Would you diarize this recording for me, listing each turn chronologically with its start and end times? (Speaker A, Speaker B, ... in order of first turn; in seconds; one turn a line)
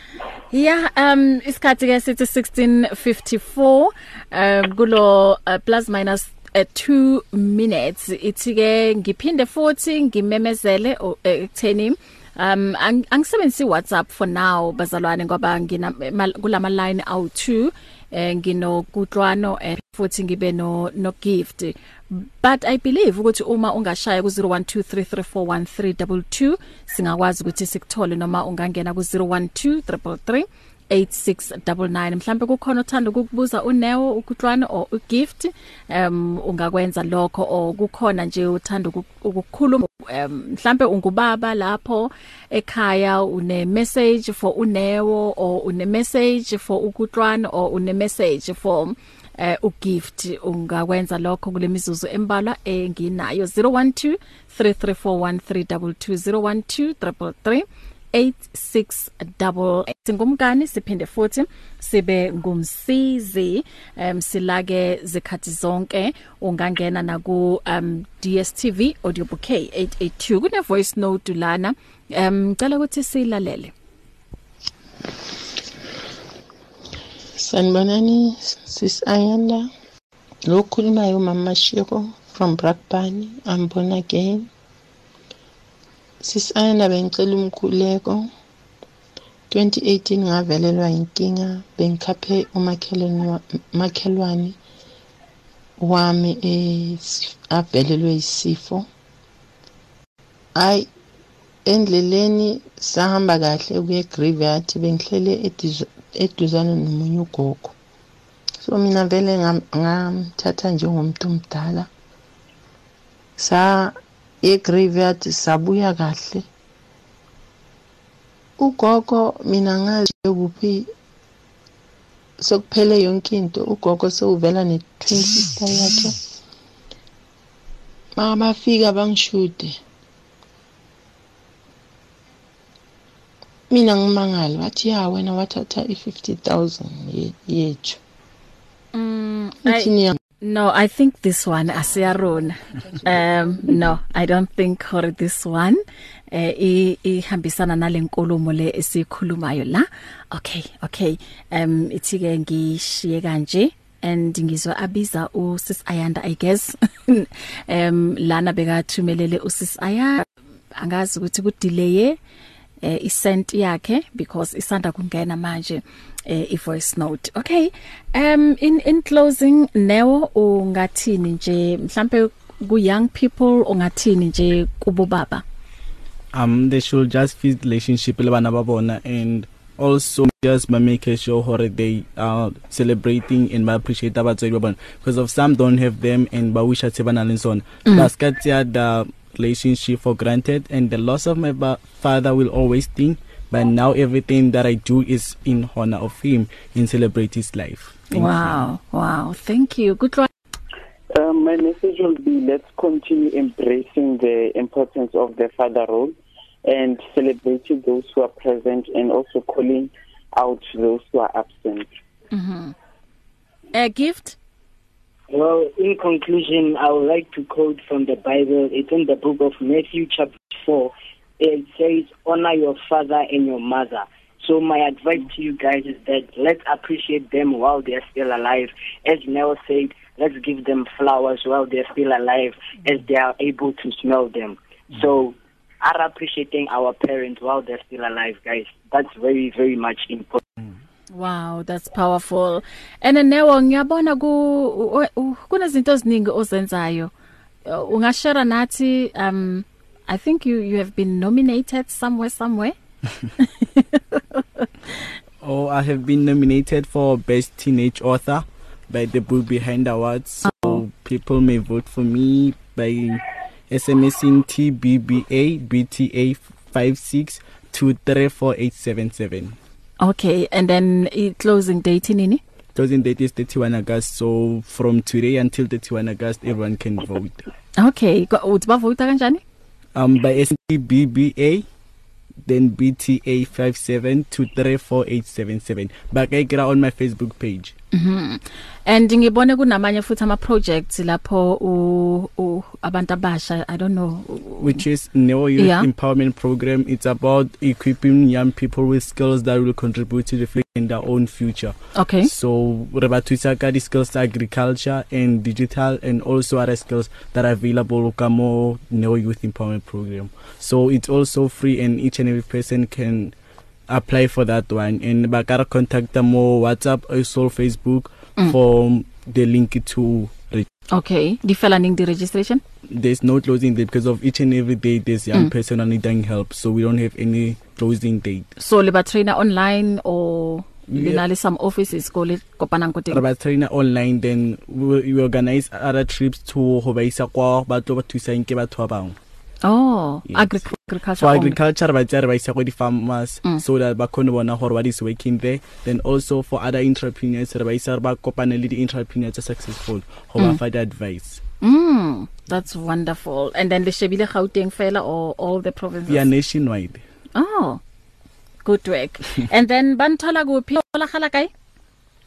Speaker A: 0.5-73.7
Speaker B: 77.4-79.7
Speaker B: 80.5-84.5
Speaker B: 86.2-88.3
Speaker B: 89.5-94.6
Speaker B: 95.8-98.8
Speaker B: 100.5-100.9
Speaker B: 101.7-107.7
Speaker B: 108.6-111.9
Speaker B: 113.4-116.4
Speaker B: 118.6-120.9
Speaker B: 122.4-126.2
Speaker B: 128.2-129.8
Speaker B: 133.7-138.0
Speaker A: 138.9-162.2
Speaker B: 139.6-140.2
Speaker A: 162.8-175.4
Speaker C: 176.3-198.7
Speaker A: 198.1-200.3
Speaker D: 201.1-211.9
Speaker A: 212.3-212.7
Speaker A: 213.7-214.4
Speaker E: 215.3-240.4
Speaker A: 241.1-247.1
Speaker A: 247.7-252.8
Speaker A: 253.4-254.7
Speaker C: 255.4-269.6
Speaker A: 260.5-260.7
Speaker A: 270.0-272.4
Speaker C: 272.7-277.4
Speaker A: 277.8-279.4
Speaker C: 279.9-281.6
Speaker C: 282.4-287.8
Speaker A: 287.9-294.8
Speaker C: 294.6-313.3
Speaker A: 295.6-295.9
Speaker A: 301.9-302.3
Speaker C: 313.9-320.7
Speaker A: 320.9-322.6
Speaker C: 322.9-328.5
Speaker A: 328.6-333.2
Speaker C: 330.9-331.2
Speaker C: 333.1-339.2
Speaker A: 339.6-341.6
Speaker C: 340.3-340.6
Speaker C: 341.2-351.4
Speaker A: 351.6-356.3
Speaker C: 356.1-357.0
Speaker A: 357.4-357.8
Speaker A: 358.6-361.5